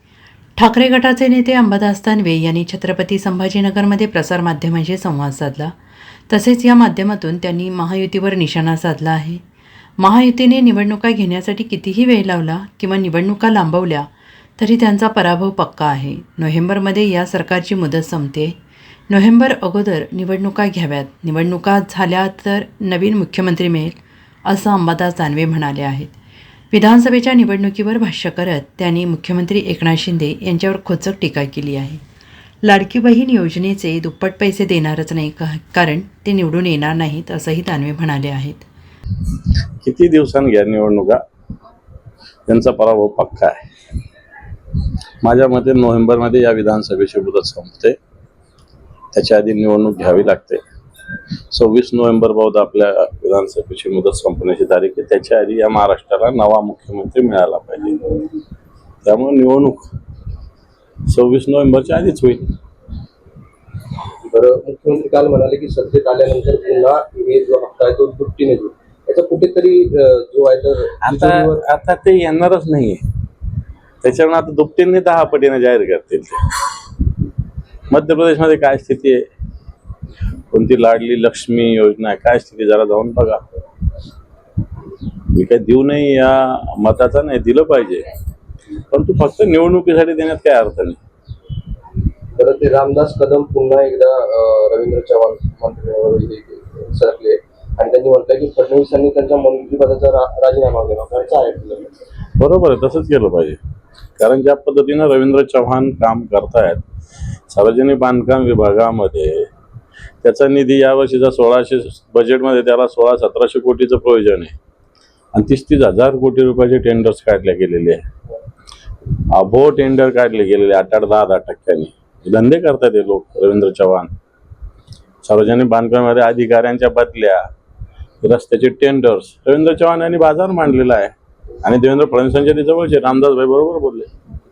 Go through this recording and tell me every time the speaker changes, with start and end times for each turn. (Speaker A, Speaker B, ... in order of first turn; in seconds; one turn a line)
Speaker A: 0.6-5.7
Speaker A: 6.3-9.4
Speaker A: 10.0-18.6
Speaker A: 19.1-26.1
Speaker A: 26.7-32.0
Speaker A: 32.6-38.6
Speaker B: 39.8-41.2
Speaker B: 42.5-43.6
Speaker B: 45.2-48.0
Speaker B: 49.1-50.6
Speaker B: 51.5-58.1
Speaker B: 59.0-59.9
Speaker B: 61.1-62.5
Speaker C: 64.2-71.6
Speaker B: 71.0-73.0
Speaker B: 74.0-76.7
Speaker B: 77.9-79.2
Speaker B: 80.5-83.4
Speaker B: 85.3-88.1
Speaker B: 88.9-91.0
Speaker C: 92.3-101.9
Speaker B: 102.4-103.6
Speaker B: 104.2-106.8
Speaker B: 107.5-109.5
Speaker B: 110.2-114.5
Speaker B: 115.3-118.0
Speaker B: 119.3-124.1
Speaker B: 125.2-127.4
Speaker B: 128.2-131.1
Speaker B: 131.6-134.1